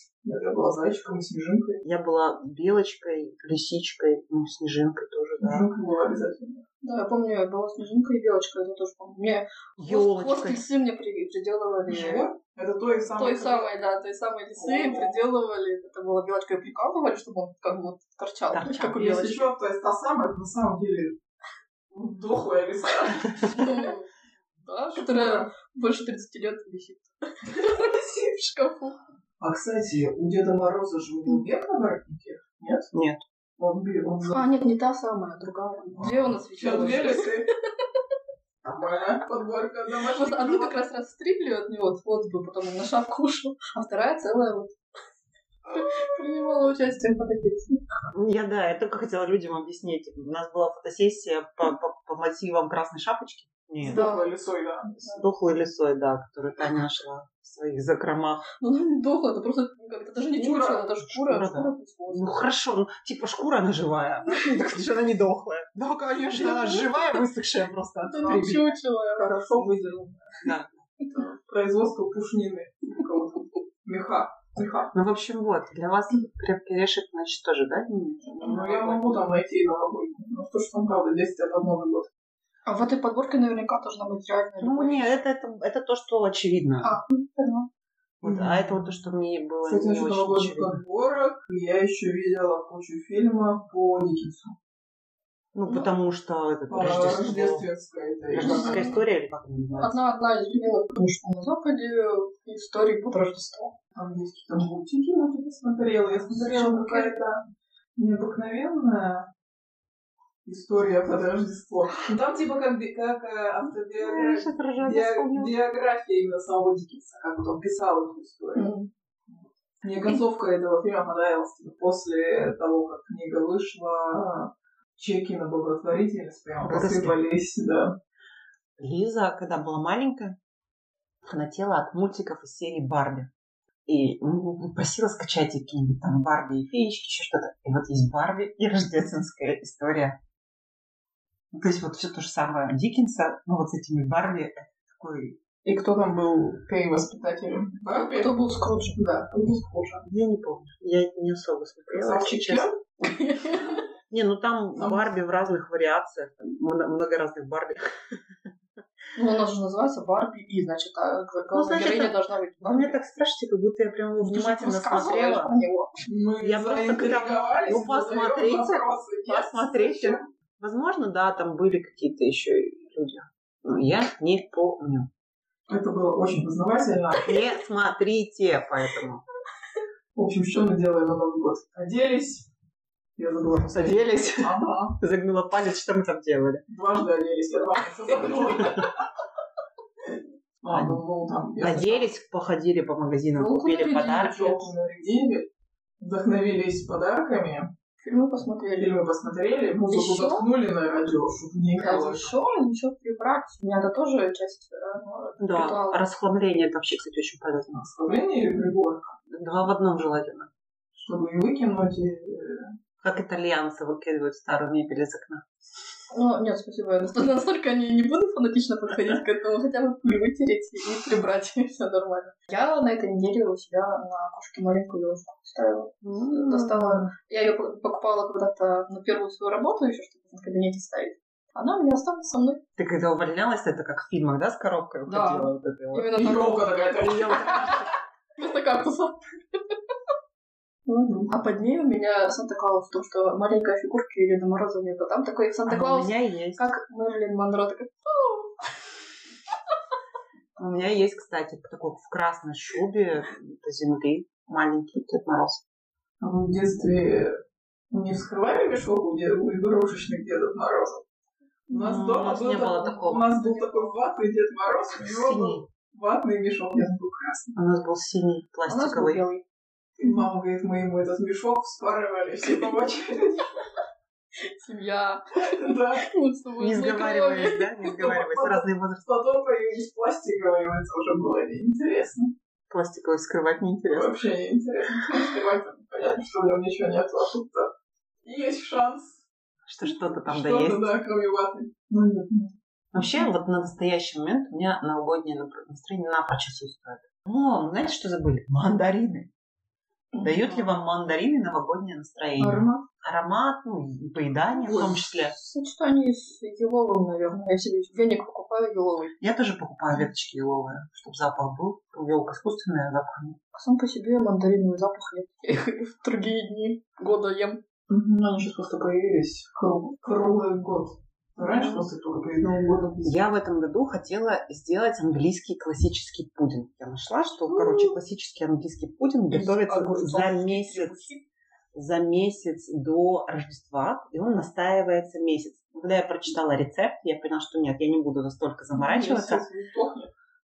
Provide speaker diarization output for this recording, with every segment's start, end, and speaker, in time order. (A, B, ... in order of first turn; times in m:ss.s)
0:00.2-0:01.8 A
0:01.8-0:05.7 B
0:05.4-0:06.6 A
0:06.8-0:12.2 C
0:09.8-0:10.6 B
0:11.9-0:13.7 A
0:13.1-0:19.4 C
0:14.6-0:15.2 A
0:18.5-0:19.3 B
0:19.0-0:21.2 A
0:21.9-0:23.7 A
0:23.5-0:24.1 C
0:24.6-0:29.0 C
0:24.9-0:25.5 A
0:29.4-0:32.9 A
0:32.9-0:33.2 B
0:33.6-0:34.4 A
0:34.3-0:37.4 C
0:36.5-0:37.5 A
0:38.6-0:40.8 A
0:40.0-0:44.8 C
0:45.7-0:47.8 C
0:45.7-0:46.0 A
0:48.1-0:54.0 B
0:53.8-0:55.1 A
0:53.9-0:54.3 C
0:55.0-0:58.4 B
0:58.6-1:02.3 C
1:00.3-1:00.9 A
1:01.1-1:08.7 B
1:06.2-1:06.9 A
1:08.1-1:09.7 C
1:08.2-1:08.6 A
1:09.2-1:10.2 A
1:10.4-1:10.8 B
1:11.1-1:14.9 A
1:14.9-1:19.2 B
1:18.4-1:22.1 A
1:22.7-1:25.2 C
1:24.6-1:27.0 B
1:26.8-1:27.7 C
1:28.2-1:30.8 B
1:28.2-1:28.7 A
1:29.6-1:34.5 A
1:35.5-1:37.7 B
1:36.7-1:38.9 A
1:38.3-1:40.0 B
1:38.4-1:39.0 C
1:39.8-1:43.7 C
1:43.9-1:47.4 A
1:46.3-1:47.2 C
1:48.0-1:49.3 A
1:50.4-1:58.7 A
1:54.0-1:55.5 B
1:58.5-1:58.9 C
1:59.3-2:08.0 A
2:06.6-2:07.2 B
2:08.8-2:10.4 B
2:11.2-2:13.3 B
2:13.9-2:20.2 B
2:21.5-2:25.4 B
2:25.6-2:28.4 A
2:28.2-2:29.0 C
2:29.0-2:30.0 A
2:30.0-2:32.7 B
2:31.9-2:32.8 A
2:33.0-2:33.8 C
2:34.1-2:38.2 B
2:34.8-2:35.1 A
2:39.2-2:43.0 C
2:41.5-2:45.5 B
2:44.2-2:45.9 C
2:46.1-2:50.2 A
2:46.4-2:55.1 B
2:55.7-2:57.3 A
2:57.2-2:59.2 B
3:00.1-3:02.5 A
3:03.2-3:05.0 A
3:03.7-3:06.6 B
3:06.7-3:08.9 A
3:10.6-3:12.1 A
3:10.7-3:11.0 B
3:11.6-3:14.7 B
3:13.4-3:14.7 C
3:14.0-3:15.5 A
3:16.0-3:17.7 A
3:18.0-3:18.9 C
3:18.7-3:22.3 A
3:19.9-3:20.5 C
3:21.8-3:26.0 C
3:25.0-3:25.3 A
3:25.4-3:27.9 B
3:27.8-3:29.1 A
3:29.3-3:30.5 B
3:31.0-3:32.7 A
3:33.0-3:35.4 B
3:36.1-3:52.6 C
3:46.0-3:47.1 B
3:52.8-3:56.1 B
3:55.1-3:57.7 C
3:56.2-3:57.9 A
3:57.0-3:57.9 B
3:58.4-3:59.2 C
4:00.8-4:08.6 C
4:05.6-4:06.6 B
4:10.6-4:15.6 B
4:16.2-4:17.3 A
4:17.9-4:21.0 A
4:21.7-4:22.1 C
4:21.7-4:27.6 A
4:21.8-4:23.3 B
4:23.2-4:24.0 C
4:25.0-4:25.6 B
4:27.5-4:29.2 B
4:28.6-4:29.4 C
4:30.0-4:33.6 A
4:32.4-4:32.8 C
4:34.4-4:37.8 C
4:35.5-4:36.1 A
4:36.6-4:39.0 B
4:38.0-4:42.3 A
4:42.7-4:44.2 B
4:43.9-4:47.7 A
4:48.2-4:49.2 A
4:49.6-4:50.9 B
4:49.8-4:52.5 A
4:52.9-4:59.3 B
5:00.1-5:00.7 C
5:00.2-5:05.3 B
5:02.4-5:02.8 A
5:04.6-5:09.1 C
5:09.2-5:13.4 B
5:13.5-5:17.6 C
5:17.9-5:23.2 A
5:21.4-5:21.8 C
5:23.0-5:31.1 B
5:27.5-5:27.9 A
5:29.3-5:31.2 A
5:31.7-5:39.4 B
5:38.8-5:40.1 A